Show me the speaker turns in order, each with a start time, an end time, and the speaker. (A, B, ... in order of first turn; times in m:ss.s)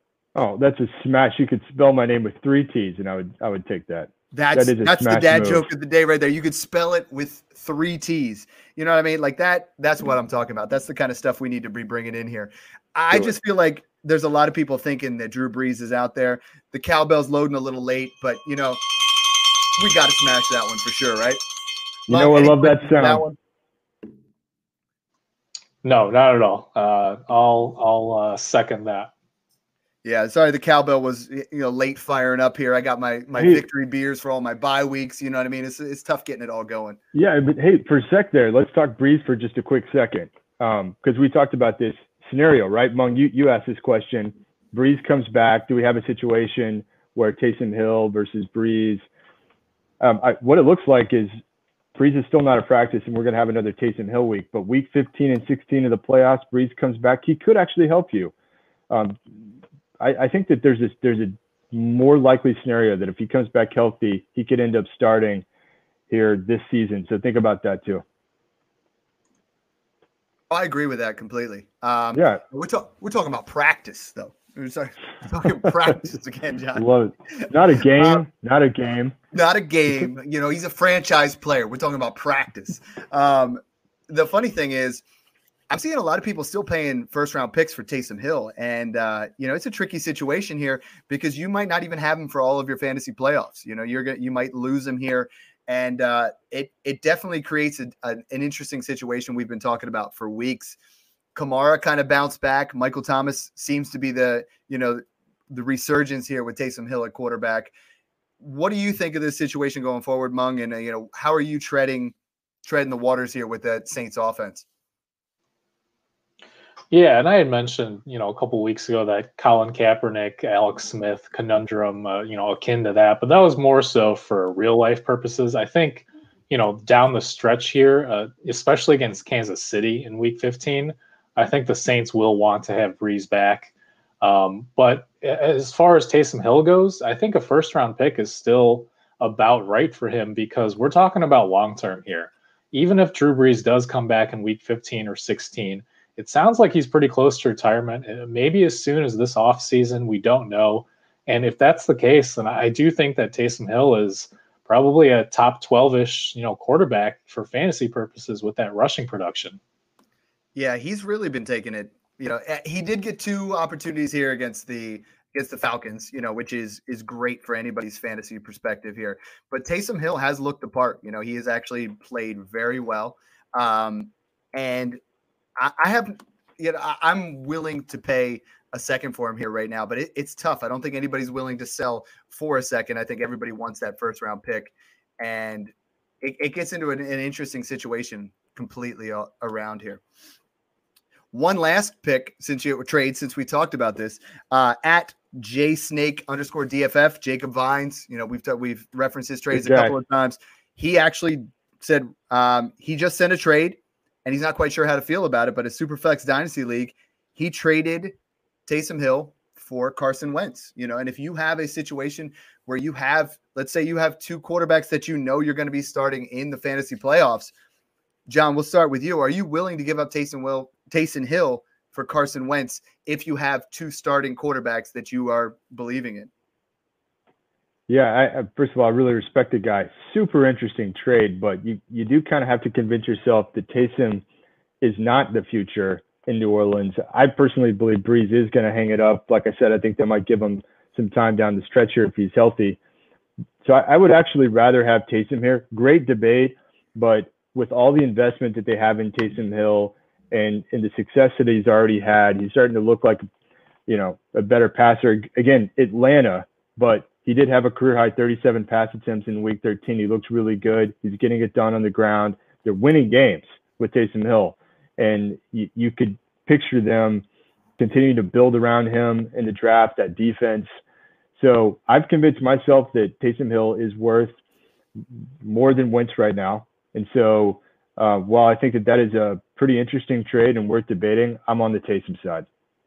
0:00.3-0:05.7 A
0:04.3-0:18.8 B
0:19.8-0:21.4 B
0:22.1-0:23.4 B
0:22.1-0:23.2 A
0:25.8-0:29.1 C
0:30.0-0:37.0 B
0:33.4-0:33.6 A
0:37.1-0:49.0 A
0:50.0-0:51.3 A
0:51.9-0:58.3 A
0:58.9-0:59.4 A
1:00.0-1:05.4 A
1:06.1-1:08.0 A
1:10.5-1:18.2 B
1:12.1-1:12.4 A
1:16.7-1:19.2 A
1:19.3-1:25.0 B
1:25.7-1:40.8 B
1:41.3-1:47.7 B
1:48.4-1:52.1 B
1:52.6-1:54.6 B
1:56.9-2:39.6 C
2:40.5-2:55.0 B
2:55.6-3:10.0 B
3:11.3-3:28.1 B
3:19.5-3:19.9 A
3:28.7-3:37.5 B
3:38.3-3:46.3 B
3:47.9-3:54.2 A
3:54.8-4:02.8 A
4:03.6-4:13.2 A
4:13.9-4:27.2 A
4:27.8-4:30.7 A
4:31.4-4:34.3 A
4:35.4-4:42.4 A